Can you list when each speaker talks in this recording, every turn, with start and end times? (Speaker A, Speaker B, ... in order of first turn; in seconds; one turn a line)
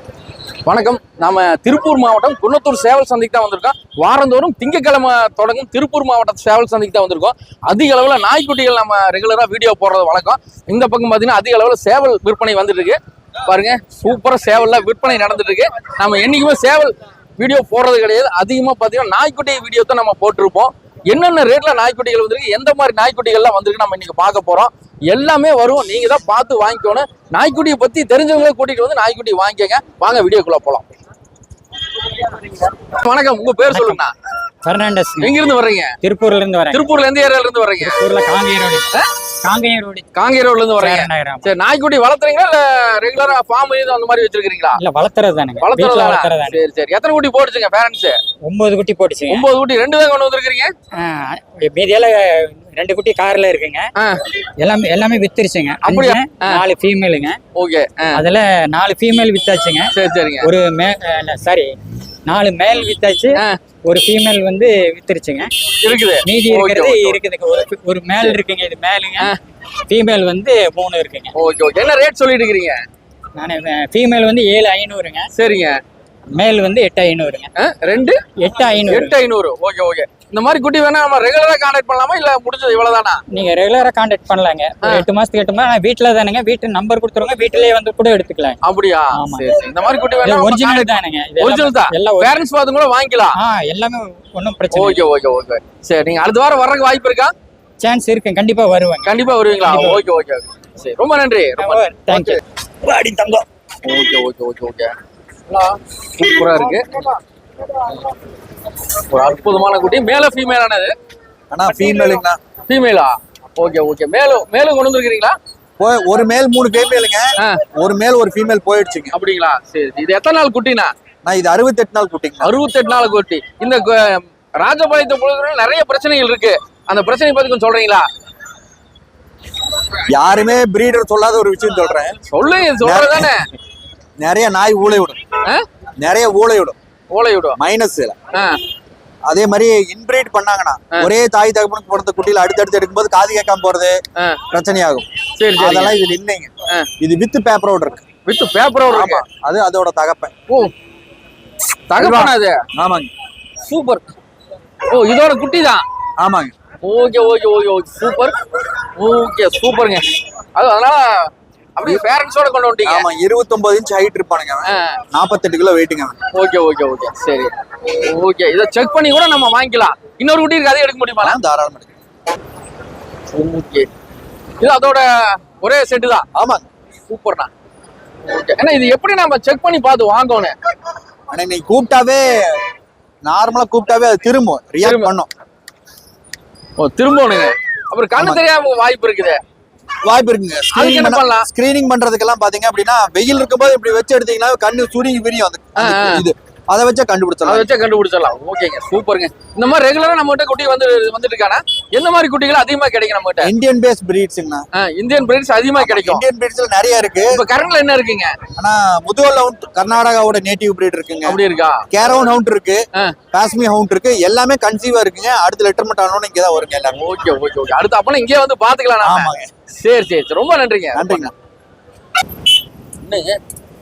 Speaker A: 0.7-30.9
Speaker A: 32.8-34.1
Speaker B: 33.7-34.0
Speaker B: 34.6-35.3
Speaker A: 35.2-35.9
Speaker B: 36.0-36.8
Speaker A: 36.7-38.0
Speaker B: 37.8-38.9
Speaker B: 39.4-40.0
Speaker A: 40.1-44.8
Speaker B: 40.8-41.5
Speaker B: 44.7-46.6
Speaker A: 45.6-48.2
Speaker B: 48.4-49.4
Speaker A: 49.3-50.7
Speaker B: 51.0-53.9
Speaker B: 54.6-57.4
Speaker A: 55.8-56.6
Speaker A: 57.5-58.2
Speaker B: 58.1-65.5
Speaker A: 59.9-60.5
Speaker A: 65.8-67.2
Speaker B: 66.2-69.3
Speaker B: 69.9-71.3
Speaker A: 71.3-72.8
Speaker B: 73.3-75.3
Speaker A: 75.3-75.8
Speaker B: 76.3-77.5
Speaker A: 77.6-78.2
Speaker B: 78.4-79.2
Speaker A: 78.8-83.2
Speaker B: 83.3-88.6
Speaker A: 88.6-93.3
Speaker B: 89.1-89.5
Speaker B: 90.2-92.3
Speaker B: 93.3-95.0
Speaker A: 94.7-97.3
Speaker B: 97.8-99.1
Speaker A: 99.0-102.4
Speaker B: 99.6-100.0
Speaker B: 101.6-102.4
Speaker C: 102.9-103.4
Speaker A: 103.8-104.9
Speaker A: 105.5-107.2
Speaker A: 109.1-110.9
Speaker C: 111.5-112.4
Speaker A: 112.7-115.3
Speaker C: 115.8-119.1
Speaker A: 119.1-120.9
Speaker C: 121.2-122.5
Speaker A: 122.4-128.1
Speaker C: 130.1-132.2
Speaker A: 132.3-133.4
Speaker C: 132.8-133.3
Speaker C: 134.2-135.2
Speaker C: 136.0-136.8
Speaker A: 137.1-137.6
Speaker C: 137.6-138.1
Speaker A: 138.3-138.6
Speaker C: 139.3-144.0
Speaker C: 144.5-148.0
Speaker A: 145.4-145.9
Speaker A: 148.2-149.2
Speaker C: 148.9-150.3
Speaker A: 151.9-152.6
Speaker C: 152.0-153.1
Speaker A: 153.7-154.1
Speaker A: 154.9-155.8
Speaker C: 156.2-156.5
Speaker A: 156.8-158.3
Speaker A: 159.0-161.0
Speaker A: 161.8-163.1
Speaker C: 162.8-166.2
Speaker A: 164.7-165.0
Speaker A: 166.3-171.4
Speaker C: 171.2-172.0
Speaker A: 173.3-173.9
Speaker A: 174.6-176.2
Speaker C: 176.3-176.7
Speaker A: 177.1-177.5
Speaker A: 178.3-180.5
Speaker C: 181.3-182.6
Speaker C: 183.2-185.3
Speaker A: 184.8-185.1
Speaker A: 186.8-189.4
Speaker C: 188.2-188.4
Speaker C: 190.0-197.7
Speaker A: 190.7-191.5
Speaker A: 195.8-196.2
Speaker A: 197.4-203.5
Speaker C: 203.4-204.7
Speaker A: 204.8-206.2
Speaker C: 205.7-207.4
Speaker A: 207.3-208.3
Speaker C: 208.6-211.4
Speaker A: 211.2-211.8
Speaker C: 211.9-212.8
Speaker C: 213.3-217.0
Speaker A: 217.0-221.3
Speaker C: 219.0-219.5
Speaker C: 220.9-221.3
Speaker A: 223.0-223.4